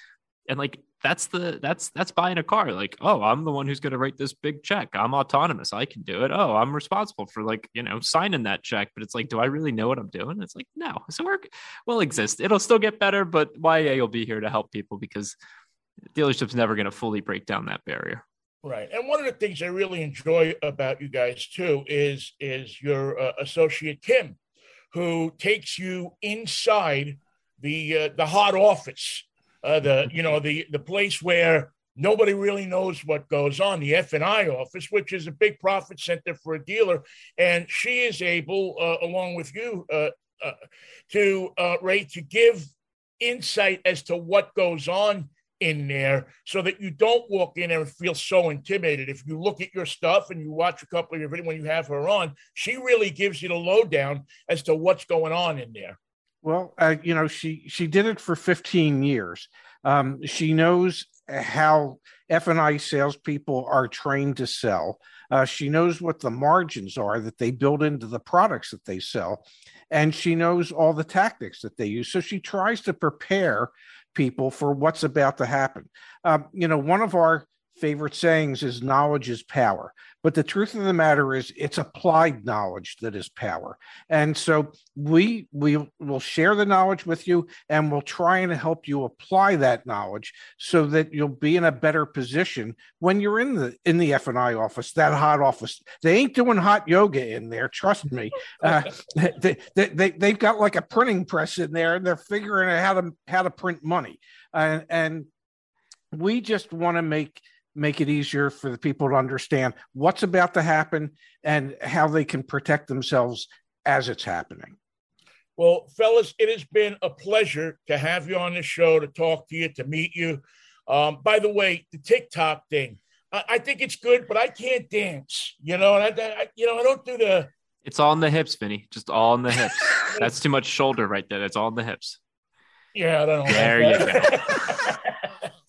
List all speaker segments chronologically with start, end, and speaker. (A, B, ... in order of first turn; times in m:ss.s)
0:00.5-0:15.4 A
0:16.1-0:18.2 A
0:18.6-0:24.4 B
0:24.9-0:40.6 B
0:41.1-0:42.7 B
0:43.2-0:56.0 B
0:56.4-1:45.3 C
1:46.1-1:54.7 C
1:55.6-2:07.5 B
2:07.8-2:12.2 A
2:12.9-2:15.3 B
2:13.5-2:14.8 A